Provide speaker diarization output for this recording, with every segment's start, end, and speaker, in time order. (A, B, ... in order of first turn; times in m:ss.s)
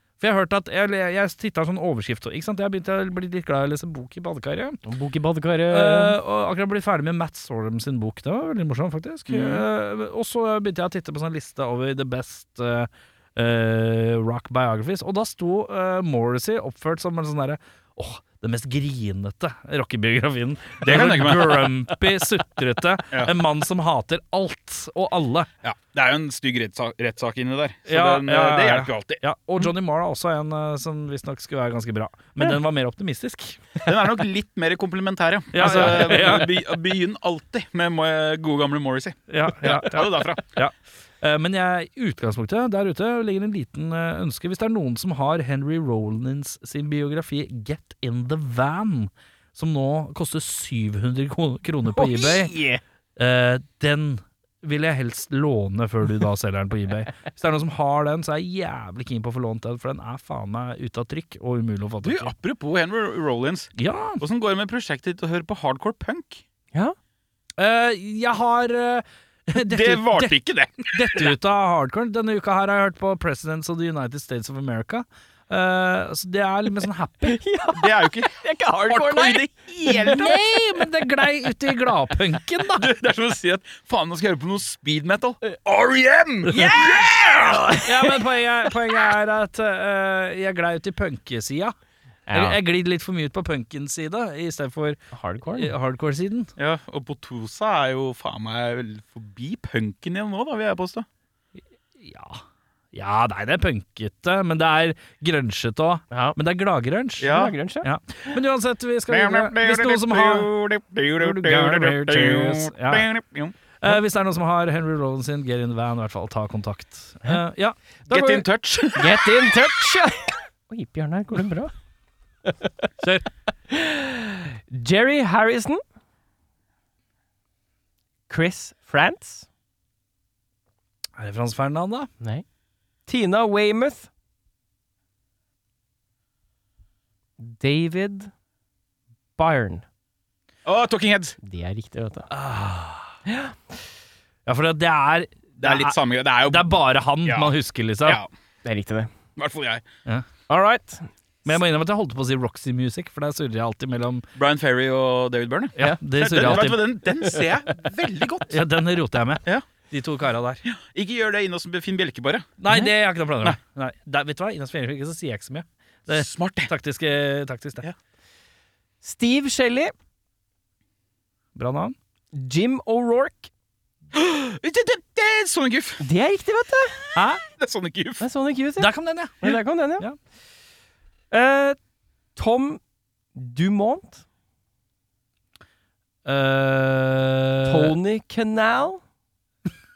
0:00.2-0:04.8 A
0:04.8-0:06.2 B
0:05.7-0:25.5 A
0:09.3-0:09.6 C
0:20.8-0:21.7 C
0:25.6-0:29.2 C
0:27.9-0:33.7 A
0:33.8-0:40.4 C
0:35.5-0:36.5 A
0:39.3-0:52.6 A
0:51.9-0:52.8 B
0:53.2-1:02.3 A
1:02.0-1:06.4 C
1:03.8-1:04.2 A
1:07.6-1:10.3 A
1:09.7-1:11.3 C
1:10.9-1:17.4 A
1:17.3-1:20.4 B
1:17.8-1:18.3 C
1:18.9-1:20.4 C
1:20.1-1:22.9 A
1:22.8-1:27.8 C
1:26.5-1:26.9 A
1:26.6-1:28.2 B
1:27.8-1:31.8 A
1:32.3-1:32.6 B
1:32.3-1:35.0 A
1:35.1-1:35.7 B
1:35.6-1:36.5 A
1:36.6-1:41.1 C
1:42.0-1:42.4 A
1:42.9-1:47.3 A
1:46.1-1:46.4 B
1:47.2-1:47.5 C
1:47.2-1:47.9 B
1:47.8-1:50.5 A
1:49.1-1:53.6 C
1:51.2-1:53.1 A
1:53.8-1:57.8 A
1:58.1-2:01.7 B
1:58.1-1:59.4 C
2:02.4-2:02.9 B
2:03.7-2:05.8 B
2:08.3-2:09.5 B
2:11.2-2:12.1 A
2:13.1-2:14.1 B
2:17.4-2:18.3 B
2:19.4-2:19.8 B
2:20.6-2:21.4 C
2:21.4-2:22.3 B
2:22.3-2:23.2 A
2:23.3-2:23.7 B
2:24.5-2:28.2 A
2:25.6-2:28.3 C
2:28.6-2:29.1 B
2:29.4-2:29.9 C
2:30.5-2:31.1 B
2:31.5-2:34.3 A
2:34.4-2:38.6 C
2:35.8-2:36.8 A
2:35.8-2:37.5 B
2:38.5-2:40.6 A
2:40.6-2:42.5 C
2:42.6-2:47.9 A
2:46.1-2:46.7 C
2:49.0-2:49.9 B
2:51.6-2:52.0 A
2:52.3-2:53.5 B
2:54.1-2:56.0 C
2:56.0-2:57.0 B
2:57.2-2:57.4 A
2:57.6-2:58.2 C
2:58.2-3:00.0 B
2:58.8-3:00.2 A
3:01.3-3:01.8 B
3:02.4-3:02.8 B
3:03.4-3:04.2 B
3:06.2-3:08.0 A
3:07.7-3:09.0 B